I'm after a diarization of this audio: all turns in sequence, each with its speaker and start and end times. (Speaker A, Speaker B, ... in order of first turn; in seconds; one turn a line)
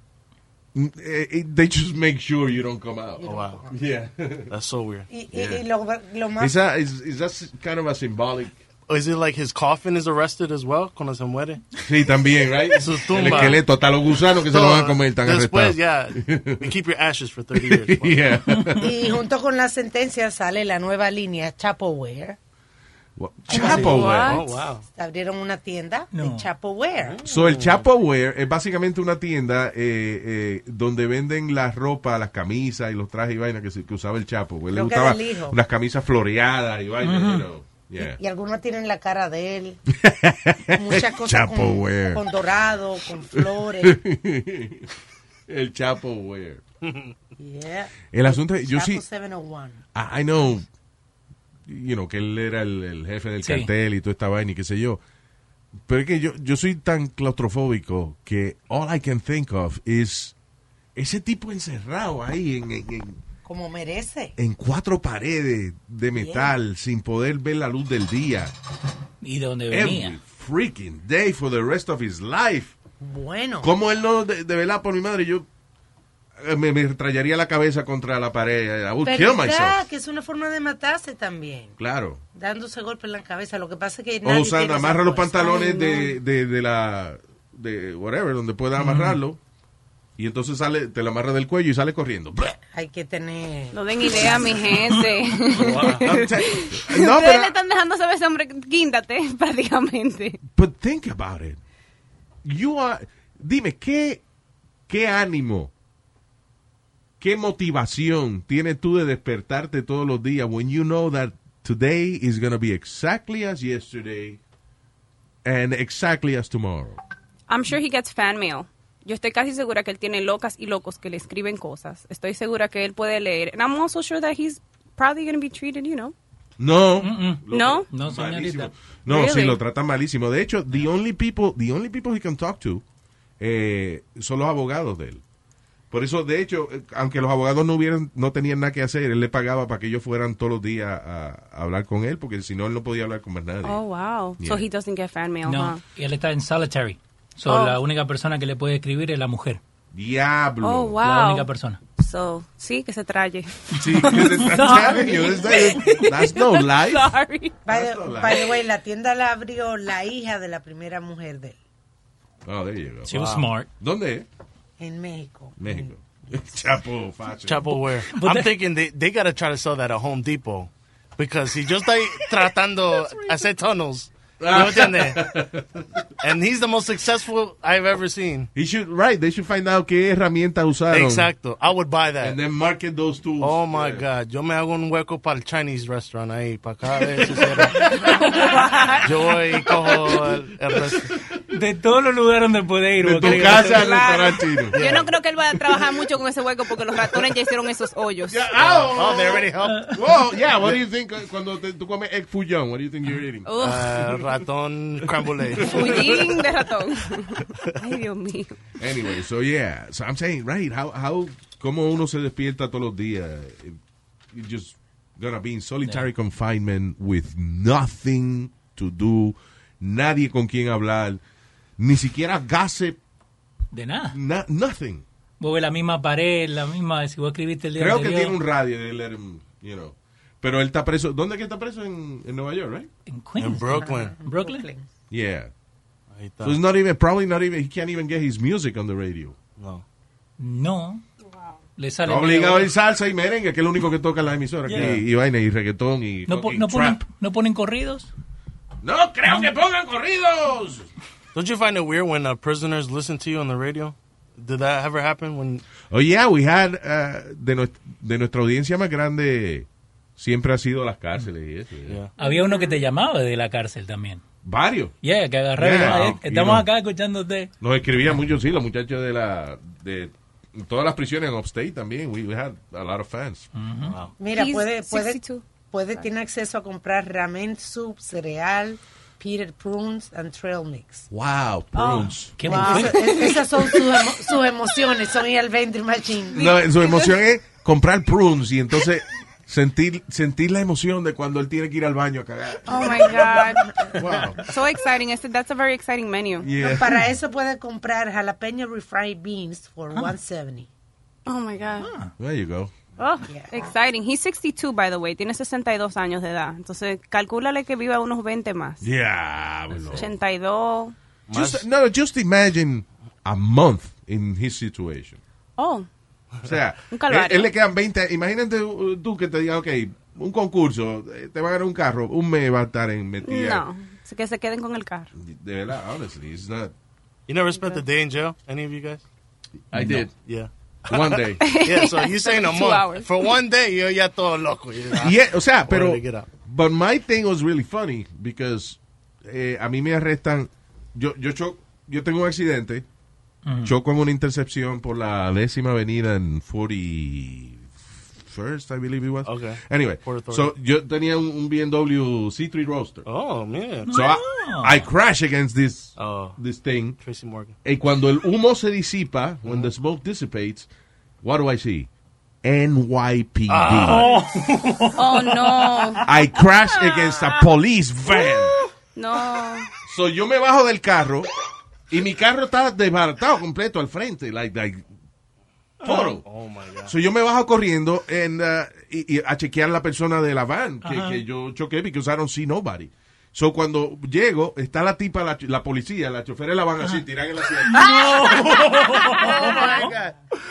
Speaker A: 0.7-4.5
Speaker B: 3.2-3.7
Speaker C: 3.2-3.6
Speaker C: 4.5-5.1
Speaker B: 5.1-6.6
Speaker A: 5.3-5.6
Speaker A: 6.4-8.6
Speaker C: 8.9-11.6
Speaker A: 11.8-16.7
Speaker C: 12.7-13.7
Speaker C: 14.5-18.2
Speaker A: 17.7-18.9
Speaker D: 18.5-18.8
Speaker B: 18.8-22.4
Speaker A: 23.2-24.4
Speaker B: 23.5-24.1
Speaker C: 23.5-24.8
Speaker E: 23.9-24.6
Speaker B: 24.9-27.2
Speaker D: 26.1-26.5
Speaker C: 27.0-27.9
Speaker A: 27.2-38.2
Speaker B: 34.7-35.6
Speaker D: 37.0-37.5
Speaker B: 38.0-39.8
Speaker A: 39.9-42.2
Speaker B: 40.8-44.0
Speaker A: 43.4-44.9
Speaker A: 45.5-46.6
Speaker C: 46.8-47.1
Speaker B: 47.4-49.8
Speaker A: 48.1-49.0
Speaker A: 49.9-50.7
Speaker A: 51.7-55.0
Speaker D: 53.4-53.7
Speaker A: 55.9-60.3
Speaker A: 61.0-63.2
Speaker B: 63.4-64.3
Speaker A: 64.4-68.5
Speaker B: 66.2-66.5
Speaker D: 69.2-70.2
Speaker A: 69.7-72.7
Speaker B: 73.0-73.7
Speaker A: 73.6-75.5
Speaker A: 76.4-79.8
Speaker B: 79.0-81.8
Speaker A: 81.8-82.2
Speaker B: 82.3-85.8
Speaker A: 84.2-89.4
Speaker E: 85.4-86.1
Speaker D: 88.8-89.2
Speaker A: 90.2-92.6
Speaker B: 92.7-95.0
Speaker E: 93.7-100.4
Speaker C: 95.6-96.1
Speaker A: 95.7-97.5
Speaker A: 100.5-101.6
Speaker A: 102.4-104.2
Speaker A: 104.9-105.7
Speaker A: 107.2-114.4
Speaker A: 115.5-117.0
Speaker E: 117.5-126.2
Speaker A: 126.6-132.8
Speaker D: 127.0-128.7
Speaker E: 127.5-127.9
Speaker E: 129.1-129.6
Speaker A: 133.4-135.2
Speaker A: 135.9-143.8
Speaker E: 143.6-145.8
Speaker A: 144.4-144.7
Speaker D: 145.4-149.6
Speaker E: 147.5-147.8
Speaker A: 149.9-151.0
Speaker E: 150.6-151.5
Speaker D: 151.0-151.8
Speaker E: 152.0-157.6
Speaker A: 153.8-157.1
Speaker D: 154.0-155.0
Speaker A: 157.7-158.5
Speaker B: 157.7-161.6
Speaker A: 162.5-163.2
Speaker D: 163.1-163.7
Speaker C: 163.1-163.5
Speaker A: 163.8-164.3
Speaker B: 164.8-166.4
Speaker A: 165.6-167.8
Speaker C: 167.4-175.3
Speaker D: 168.1-168.6
Speaker A: 174.4-175.9
Speaker C: 176.2-178.5
Speaker A: 178.5-181.3
Speaker C: 180.9-182.4
Speaker A: 182.2-184.1
Speaker C: 183.4-187.9
Speaker E: 187.9-189.3
Speaker C: 189.0-191.1
Speaker D: 191.5-193.9
Speaker A: 193.0-194.8
Speaker E: 193.7-198.5
Speaker C: 194.7-195.1
Speaker A: 198.3-203.5
Speaker C: 198.6-199.9
Speaker E: 203.4-204.0
Speaker C: 203.6-206.3
Speaker A: 205.6-206.2
Speaker E: 205.6-208.6
Speaker A: 208.8-213.8
Speaker A: 214.3-221.2
Speaker A: 221.8-223.0
Speaker D: 223.7-224.2
Speaker A: 224.1-225.1
Speaker D: 225.4-228.4
Speaker A: 227.8-232.9
Speaker D: 233.1-234.7
Speaker C: 233.4-234.2
Speaker B: 233.8-234.9
Speaker A: 235.1-235.5
Speaker C: 236.1-236.6
Speaker A: 236.4-239.4
Speaker C: 239.6-239.8
Speaker D: 240.4-241.1
Speaker D: 241.8-242.7
Speaker A: 242.1-247.0
Speaker C: 244.7-245.0
Speaker D: 246.3-248.1
Speaker A: 248.8-250.9
Speaker C: 251.3-255.7
Speaker A: 255.9-262.0
Speaker C: 261.9-262.1
Speaker D: 262.2-264.2
Speaker A: 264.4-264.9
Speaker D: 265.0-267.5
Speaker A: 265.6-266.7
Speaker A: 267.6-273.5
Speaker D: 273.6-274.0
Speaker C: 273.8-274.1
Speaker B: 274.2-281.1
Speaker E: 274.3-275.4
Speaker A: 281.1-282.4
Speaker E: 281.8-284.0
Speaker D: 282.4-283.0
Speaker B: 282.4-286.6
Speaker A: 286.3-293.3
Speaker E: 292.7-293.8
Speaker B: 293.0-293.9
Speaker A: 293.9-294.4
Speaker E: 294.4-296.5
Speaker A: 296.4-297.0
Speaker B: 296.6-300.7
Speaker E: 301.3-301.9
Speaker D: 301.8-302.1
Speaker A: 302.2-302.7
Speaker E: 303.0-308.9
Speaker B: 303.3-303.7
Speaker A: 308.8-310.1
Speaker E: 309.9-310.9
Speaker C: 311.3-311.6
Speaker A: 311.3-315.2
Speaker E: 315.6-315.9
Speaker A: 316.4-323.7
Speaker E: 316.9-317.5
Speaker E: 323.2-325.1
Speaker A: 325.1-326.7
Speaker C: 327.3-329.0
Speaker E: 327.5-327.8
Speaker A: 329.7-330.1
Speaker C: 329.7-336.3
Speaker A: 330.9-331.5
Speaker E: 331.4-333.1
Speaker A: 335.0-342.9
Speaker D: 343.5-343.7
Speaker A: 343.6-347.7
Speaker A: 348.2-353.1
Speaker C: 349.2-350.5
Speaker C: 353.1-354.0
Speaker D: 353.9-354.9
Speaker A: 353.9-357.0
Speaker C: 356.0-356.4
Speaker C: 357.0-357.6
Speaker A: 357.6-360.7
Speaker C: 359.4-359.7
Speaker A: 361.2-361.9
Speaker A: 362.4-364.1
Speaker C: 363.5-364.2
Speaker D: 363.9-365.4
Speaker E: 364.9-366.1
Speaker A: 366.0-368.6
Speaker E: 366.6-367.2
Speaker E: 369.0-369.7
Speaker A: 369.9-371.3
Speaker A: 371.9-374.9
Speaker A: 375.8-376.2
Speaker C: 376.2-376.9
Speaker A: 376.9-388.1
Speaker D: 380.8-381.2
Speaker D: 387.7-389.9
Speaker B: 389.3-389.9